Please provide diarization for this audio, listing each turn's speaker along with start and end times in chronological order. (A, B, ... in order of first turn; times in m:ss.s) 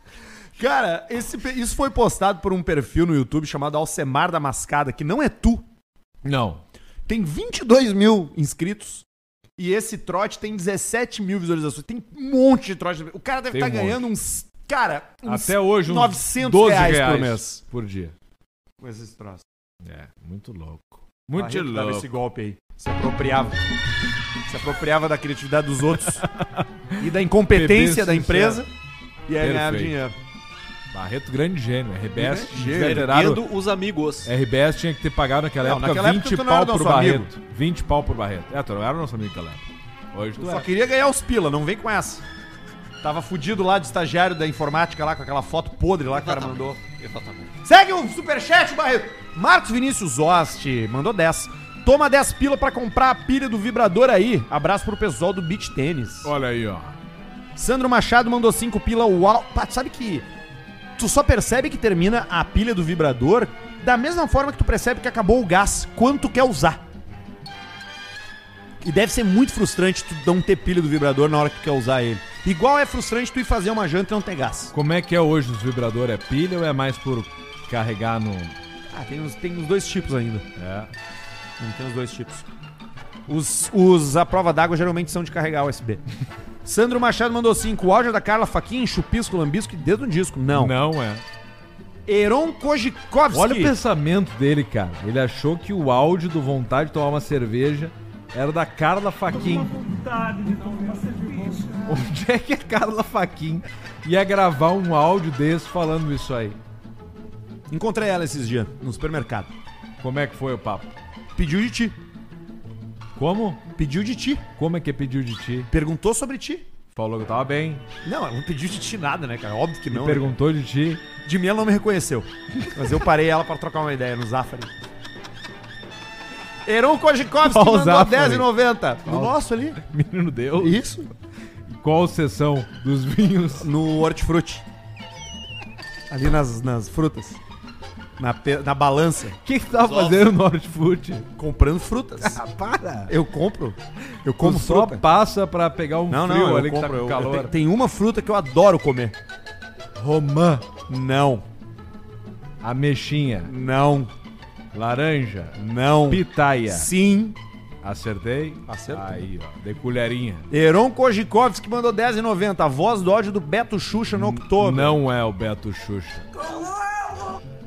0:00.6-0:05.6 A
0:06.2-0:06.6 B
0:07.1-0:09.1 A
0:09.6-0:17.6 A
0:13.5-0:14.1 B
0:15.2-0:18.2 B
0:18.8-0:19.4 A
0:19.8-0:22.1 B
0:21.3-0:23.6 A
0:24.5-0:26.3 A
0:26.2-0:28.6 B
0:27.0-0:28.7 A
0:29.3-0:30.2 A
0:29.4-0:30.0 B
0:30.9-0:33.5 B
0:32.2-0:33.1 A
0:32.6-0:34.3 C
0:34.2-0:40.7 B
0:35.6-0:37.3 A
0:40.4-0:42.2 A
0:43.0-0:46.8 A
0:46.1-0:47.5 C
0:47.6-0:56.3 A
0:56.2-0:57.0 B
0:57.6-1:00.3 A
1:01.0-1:06.8 A
1:08.8-1:14.7 A
1:14.7-1:18.6 B
1:18.9-1:20.5 A
1:20.6-1:20.9 B
1:21.6-1:22.5 A
1:23.3-1:26.0 A
1:26.6-1:30.8 A
1:30.5-1:31.2 B
1:32.1-1:33.8 A
1:33.3-1:39.9 B
1:40.2-1:41.4 A
1:41.6-1:46.6 B
1:47.7-1:49.5 A
1:50.0-1:50.9 B
1:51.4-1:52.0 A
1:53.2-1:53.7 B
1:53.8-1:54.5 A
1:54.6-1:55.7 B
1:55.7-1:56.7 A
1:56.9-1:57.8 B
1:58.0-2:00.4 A
1:59.9-2:01.0 B
2:01.2-2:04.7 A
2:06.6-2:09.8 A
2:07.4-2:11.0 B
2:10.6-2:11.1 A
2:11.7-2:13.7 B
2:13.6-2:14.6 A
2:16.1-2:17.4 A
2:18.2-2:19.4 A
2:19.4-2:21.3 B
2:19.8-2:20.3 C
2:21.4-2:22.4 A
2:22.2-2:23.1 B
2:23.1-2:25.0 A
2:24.2-2:27.5 B
2:26.1-2:29.2 A
2:30.0-2:30.7 B
2:30.9-2:31.4 A
2:32.6-2:33.5 B
2:33.4-2:34.1 A
2:34.7-2:36.9 B
2:35.6-2:37.4 A
2:37.8-2:40.5 B
2:38.7-2:39.2 A
2:40.5-2:45.0 A
2:44.1-2:46.3 B